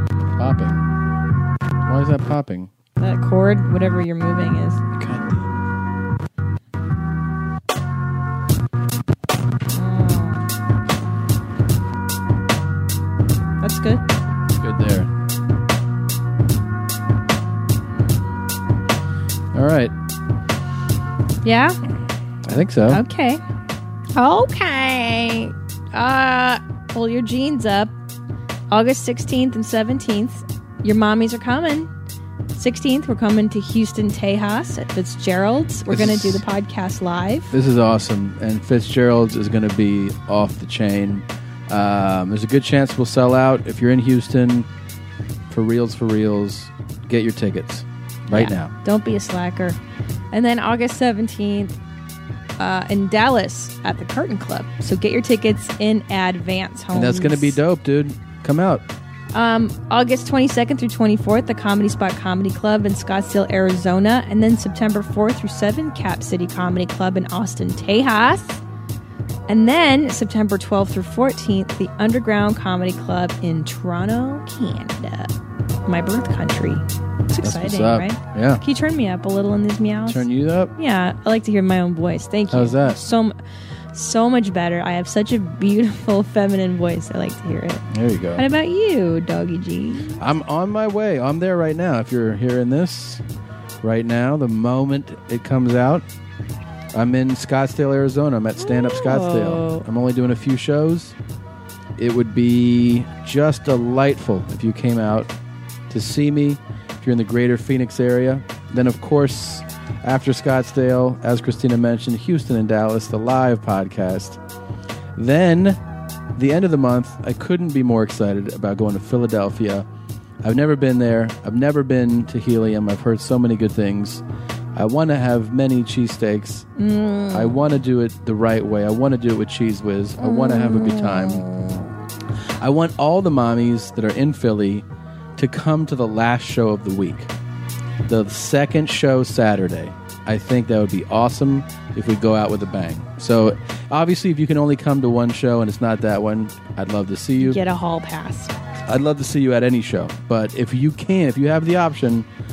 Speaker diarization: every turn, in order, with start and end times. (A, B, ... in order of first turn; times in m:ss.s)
0:00.4-0:00.8 A
0:01.8-0:02.7 A
0:03.0-0:04.8 B
0:05.0-0:05.5 A
0:09.7-0:10.5 B
0:13.6-0:14.0 B
0:14.5-0:15.1 A
0:19.5-0:19.9 A
0:21.4-0:21.8 B
0:22.4-0:23.0 A
0:22.9-0:23.4 B
0:24.2-0:27.9 B
0:28.7-0:31.9 B
0:32.5-0:37.5 B
0:35.9-0:36.4 A
0:37.5-0:44.7 A
0:45.5-0:48.7 A
0:48.3-0:49.8 B
0:50.3-0:51.8 B
0:52.6-0:57.6 B
0:56.9-0:58.8 A
0:59.3-1:08.6 B
1:09.5-1:15.3 B
1:15.8-1:23.4 B
1:17.4-1:18.6 A
1:20.1-1:20.7 A
1:22.5-1:23.0 A
1:23.9-1:27.8 B
1:27.9-1:28.4 A
1:28.4-1:30.2 B
1:30.2-1:33.2 A
1:33.8-1:36.0 A
1:36.9-1:41.1 A
1:38.6-1:39.8 B
1:42.0-1:45.3 A
1:45.9-1:54.4 A
1:55.2-1:55.8 A
1:56.3-1:59.8 A
2:00.4-2:06.7 A
2:06.8-2:07.6 B
2:07.3-2:11.5 A
2:10.2-2:11.8 B
2:12.6-2:14.8 A
2:15.4-2:17.3 A
2:18.0-2:27.6 A
2:27.4-2:28.5 B
2:28.9-2:32.3 A